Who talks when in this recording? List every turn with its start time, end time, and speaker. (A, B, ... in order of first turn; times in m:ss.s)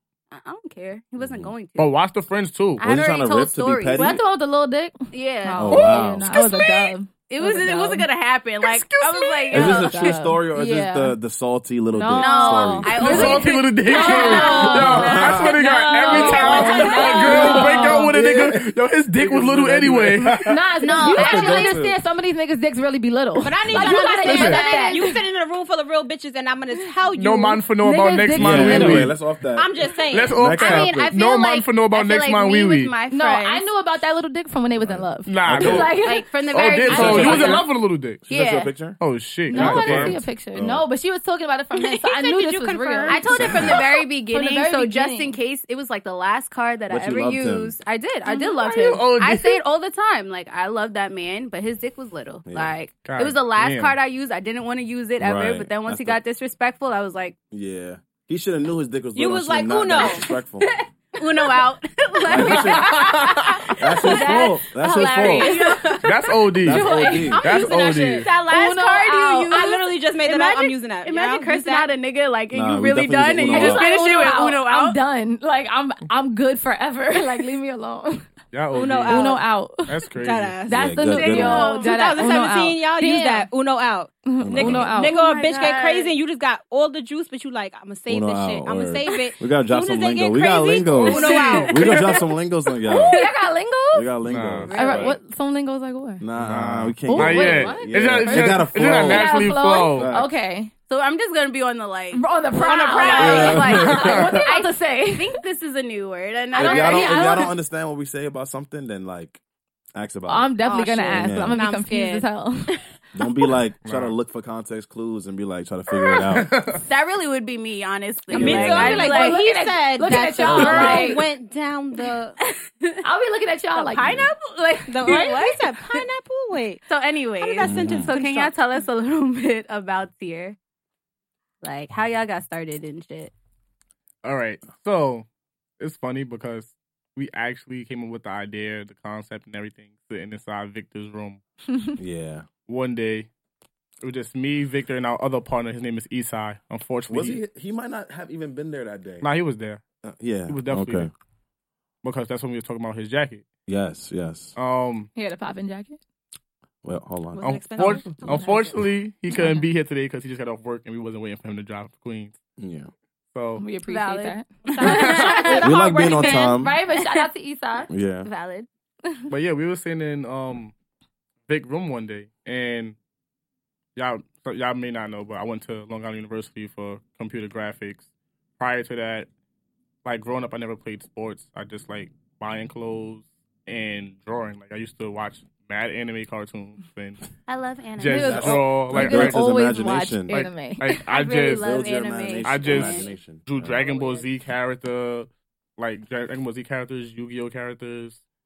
0:00.3-0:01.9 A
0:01.2-0:01.5 B
0:01.8-0:02.8 C
0:02.8-0:04.2 A
0:02.8-0:04.2 B
0:04.0-0:08.1 D
0:05.1-0:10.2 A
0:05.6-0:06.3 B
0:05.7-0:06.1 C
0:08.6-0:09.7 C
0:09.5-0:11.2 D
0:09.5-0:13.5 B
0:11.9-0:18.2 D
0:12.2-0:18.0 A
0:12.9-0:20.6 C
0:13.9-0:14.9 E
0:14.6-0:15.6 B
0:15.7-0:17.5 E
0:17.8-0:20.4 B
0:20.4-0:25.2 D
0:20.8-0:21.7 A
0:20.9-0:22.0 B
0:23.4-0:27.6 E
0:23.6-0:24.0 B
0:24.2-0:24.7 C
0:27.2-0:29.2 C
0:27.8-0:29.1 D
0:28.4-0:31.1 B
0:29.6-0:30.5 E
0:30.1-0:32.9 C
0:30.5-0:33.7 A
0:33.1-0:37.5 D
0:34.8-0:35.9 B
0:35.2-0:38.2 C
0:36.0-0:37.7 A
0:36.9-0:37.6 B
0:38.2-0:39.0 B
0:38.3-0:38.8 A
0:39.0-0:40.2 C
0:39.5-0:45.4 D
0:39.5-0:40.8 B
0:41.9-0:43.5 E
0:43.0-0:57.4 A
0:43.4-0:43.8 B
0:46.9-0:47.8 B
0:48.3-0:48.6 D
0:48.6-0:49.6 C
0:52.5-0:52.8 B
0:53.0-0:54.0 C
0:55.2-0:56.2 B
0:57.5-1:00.7 B
0:59.2-1:00.2 E
1:00.6-1:15.0 A
1:02.3-1:05.5 B
1:02.4-1:03.8 C
1:05.2-1:06.0 D
1:06.0-1:08.3 C
1:06.6-1:07.5 B
1:06.7-1:09.6 D
1:09.5-1:11.9 E
1:12.5-1:13.9 B
1:13.5-1:18.3 D
1:18.5-1:20.6 C
1:18.7-1:19.4 E
1:19.0-1:20.0 D
1:20.2-1:20.7 E
1:20.7-1:23.5 D
1:20.7-1:21.7 B
1:21.1-1:22.2 A
1:21.6-1:32.0 E
1:24.3-1:25.2 D
1:24.4-1:24.9 B
1:25.0-1:26.2 A
1:28.1-1:33.2 B
1:31.1-1:31.8 A
1:31.1-1:32.0 C
1:32.8-1:34.1 D
1:33.9-1:35.2 B
1:34.3-1:34.8 C
1:34.7-1:35.2 A
1:34.7-1:36.2 D
1:36.2-1:40.3 B
1:36.4-1:40.2 C
1:37.1-1:40.7 D
1:40.9-1:47.5 A
1:42.1-1:45.4 D
1:43.0-1:44.4 B
1:46.5-1:47.5 D
1:46.5-1:49.4 B
1:50.0-1:50.5 B
1:50.3-1:52.8 D
1:50.6-1:52.3 E
1:51.1-1:51.6 B
1:53.2-1:56.5 B
1:53.8-1:54.1 C
1:56.3-1:56.8 C
1:56.8-1:59.4 A
1:58.3-2:02.4 E
1:58.3-1:59.0 B
1:58.6-2:01.3 D
2:00.4-2:01.0 B
2:00.6-2:00.9 C
2:02.4-2:03.0 A
2:03.0-2:04.2 D
2:03.8-2:06.1 A
2:04.0-2:04.3 B
2:04.9-2:08.6 E
2:05.1-2:05.4 D
2:06.9-2:10.6 A
2:07.6-2:08.1 B
2:11.6-2:13.3 A
2:14.2-2:15.3 C
2:15.8-2:21.4 C
2:22.0-2:22.5 B
2:22.7-2:23.3 C
2:24.0-2:27.4 C
2:27.1-2:29.2 B
2:29.2-2:29.8 C
2:30.0-2:31.1 B
2:30.5-2:31.1 C
2:32.0-2:33.4 C
2:33.7-2:34.6 B
2:34.6-2:35.1 C
2:35.2-2:36.0 D
2:36.8-2:38.8 B
2:37.3-2:38.8 E
2:37.4-2:42.4 C
2:37.8-2:38.2 D
2:39.3-2:39.6 D
2:42.6-2:42.9 B
2:43.3-2:43.6 C
2:43.6-2:47.9 D
2:43.8-2:47.3 A
2:44.8-2:45.4 C
2:45.6-2:46.8 B
2:47.9-2:48.3 B
2:48.2-2:48.7 A
2:49.3-2:50.7 C
2:51.5-2:53.0 C
2:54.0-2:58.1 C
2:58.6-2:59.3 C
3:00.0-3:07.3 C
3:07.5-3:08.7 A
3:08.0-3:09.4 C
3:08.0-3:11.0 D
3:08.2-3:10.4 B
3:10.3-3:11.7 C
3:11.0-3:13.1 A
3:11.4-3:13.9 B
3:12.4-3:18.2 C